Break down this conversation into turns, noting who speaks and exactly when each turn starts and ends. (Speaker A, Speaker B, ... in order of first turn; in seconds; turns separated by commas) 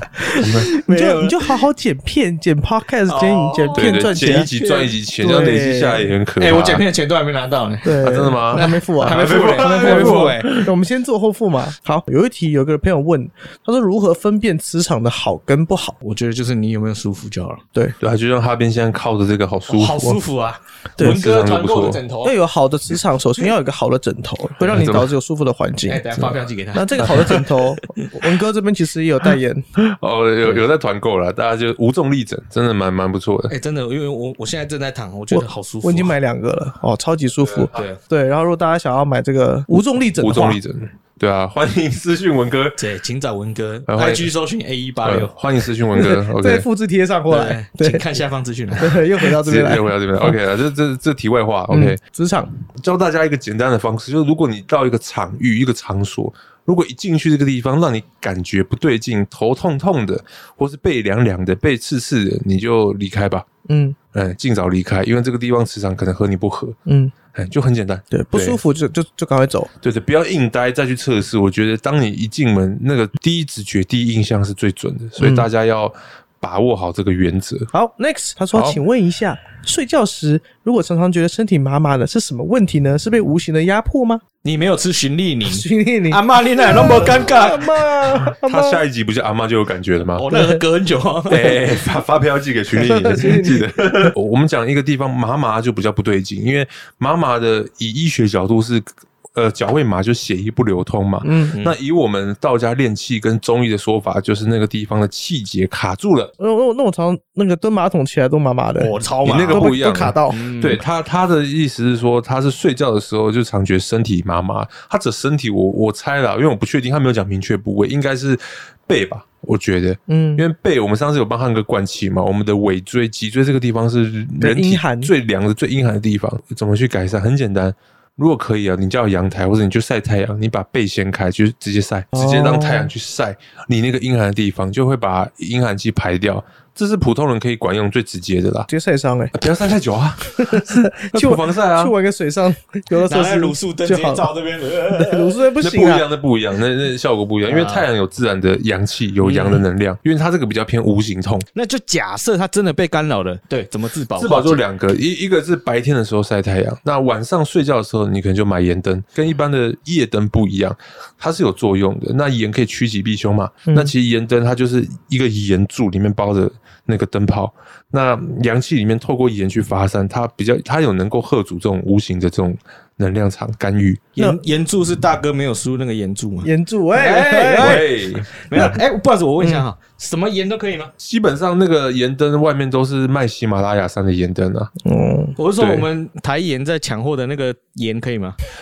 Speaker A: 0.2-1.6, Speaker B: 0.3-4.5, Speaker C: 0.3-0.7, Speaker A: 3.1-4.9, Speaker C: 3.7-6.8, Speaker B: 5.2-6.1, Speaker A: 6.4-10.5, Speaker B: 7.8-15.9, Speaker C: 8.0-10.7, Speaker A: 16.0-17.6, Speaker C: 18.0-20.2, Speaker A: 19.7-22.4, Speaker C: 21.0-22.0, Speaker B: 22.2-26.0, Speaker C: 24.7-25.1, Speaker A: 25.9-28.1, Speaker B: 26.7-29.6, Speaker C: 29.8-33.5, Speaker A: 33.5-36.1, Speaker B: 35.3-40.6, Speaker A: 37.7-38.0, Speaker C: 40.2-42.8, Speaker A: 42.8-45.3, Speaker C: 43.9-44.3, Speaker C: 45.0-46.6, Speaker B: 45.9-48.0, Speaker A: 47.3-49.2, Speaker B: 48.8-50.4, Speaker C: 49.4-52.0, Speaker B: 51.7-52.5, Speaker C: 52.8-63.4, Speaker B: 63.6-64.0, Speaker C: 64.1-66.8, Speaker B: 66.8-67.1, Speaker C: 67.3-68.6, Speaker B: 68.1-69.7, Speaker C: 69.8-77.7, Speaker B: 75.2-75.5, Speaker B: 77.7-84.2, Speaker A: 84.4-88.0, Speaker B: 85.4-88.8, Speaker C: 88.2-90.2, Speaker A: 90.2-91.8, Speaker B: 90.3-90.6, Speaker C: 91.3-106.3, Speaker B: 92.8-94.1, Speaker B: 101.2-101.5, Speaker B: 106.4-108.9, Speaker A: 108.8-109.7, Speaker C: 109.2-138.7, Speaker B: 109.5-110.4, Speaker A: 110.3-110.8, Speaker B: 120.1-120.4, Speaker B: 124.4-125.1, Speaker B: 132.1-132.9, Speaker B: 138.7-139.3, Speaker C: 139.3-141.9, Speaker B: 140.4-144.3, Speaker A: 143.0-145.4, Speaker B: 144.9-146.0, Speaker C: 145.6-151.4, Speaker A: 147.5-147.9, Speaker A: 149.2-149.6, Speaker A: 151.5-154.6, Speaker C: 154.2-174.1, Speaker B: 163.7-163.9, Speaker A: 174.2-180.9, Speaker B: 176.4-177.8, Speaker C: 177.6-178.7, Speaker B: 179.4-179.7, Speaker C: 181.0-184.7, Speaker B: 184.8-185.3, Speaker A: 185.4-188.4, Speaker C: 185.6-185.9